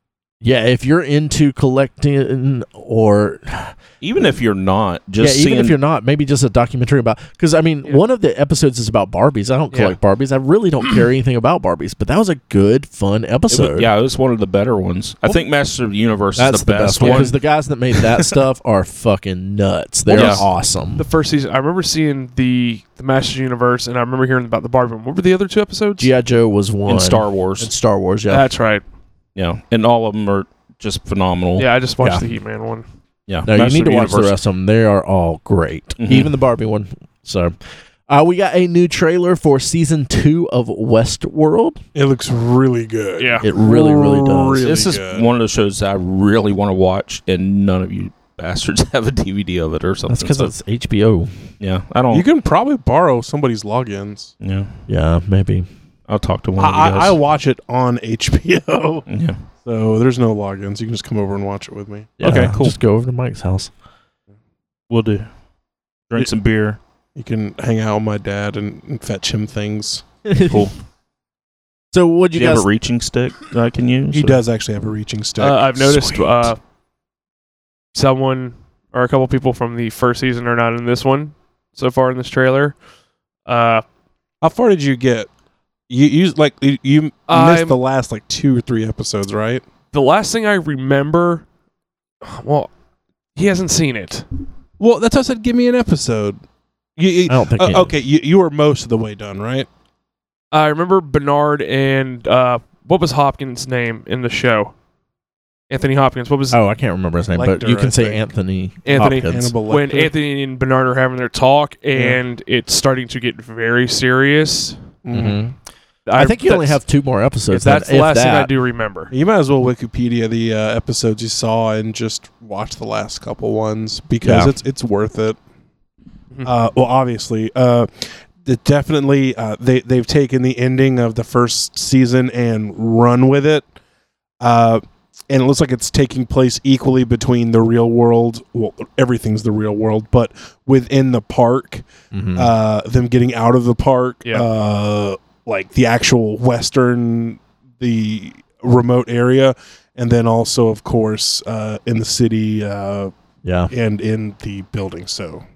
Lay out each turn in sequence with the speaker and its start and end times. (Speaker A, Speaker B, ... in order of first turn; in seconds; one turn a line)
Speaker A: 0.4-3.7
Speaker B: 4.0-5.7
Speaker A: 5.2-13.9
Speaker B: 13.5-17.3
Speaker A: 16.4-21.0
Speaker B: 20.1-20.4
Speaker C: 20.1-20.4
Speaker C: 21.0-26.1
Speaker A: 26.0-28.5
Speaker B: 26.9-27.7
Speaker C: 28.3-28.8
Speaker B: 29.4-31.7
Speaker C: 31.6-32.8
Speaker A: 32.0-32.2
Speaker B: 33.3-34.4
Speaker A: 33.5-37.5
Speaker B: 36.0-36.3
Speaker A: 38.1-41.8
Speaker D: 41.9-45.3
Speaker C: 43.2-43.4
Speaker A: 43.4-44.6
Speaker B: 44.6-50.5
Speaker A: 50.1-51.3
Speaker B: 51.6-52.2
Speaker D: 52.1-54.3
Speaker B: 54.4-54.7
Speaker A: 54.9-55.7
Speaker B: 56.1-57.1
Speaker D: 56.6-59.0
Speaker B: 59.1-59.4
Speaker D: 59.6-62.5
Speaker A: 62.2-63.7
Speaker B: 62.2-62.8
Speaker B: 64.9-65.3
Speaker B: 66.1-66.8
Speaker D: 67.1-70.0
Speaker A: 70.2-70.6
Speaker B: 70.5-70.7
Speaker A: 71.9-72.6
Speaker B: 72.3-74.4
Speaker D: 74.1-76.5
Speaker C: 75.4-76.6
Speaker C: 77.9-82.8
Speaker C: 83.5-83.8
Speaker D: 84.4-85.3
Speaker D: 85.9-89.6
Speaker C: 87.3-87.8
Speaker C: 89.9-91.5
Speaker C: 92.2-92.7
Speaker C: 93.3-94.2
Speaker D: 94.8-96.4
Speaker D: 97.0-99.7
Speaker A: 97.3-97.9
Speaker C: 100.5-104.7
Speaker C: 105.7-106.6
Speaker A: 106.5-109.5
Speaker D: 107.3-108.2
Speaker C: 108.8-114.8
Speaker D: 108.9-110.1
Speaker D: 111.9-112.2
Speaker D: 115.0-115.4
Speaker A: 115.1-115.5
Speaker C: 116.0-116.8
Speaker A: 116.2-118.5
Speaker C: 117.5-119.1
Speaker D: 119.1-125.4
Speaker A: 124.2-124.5
Speaker D: 126.4-133.7
Speaker D: 134.4-153.1
Speaker A: 142.1-142.5
Speaker A: 153.4-153.7
Speaker D: 153.7-155.4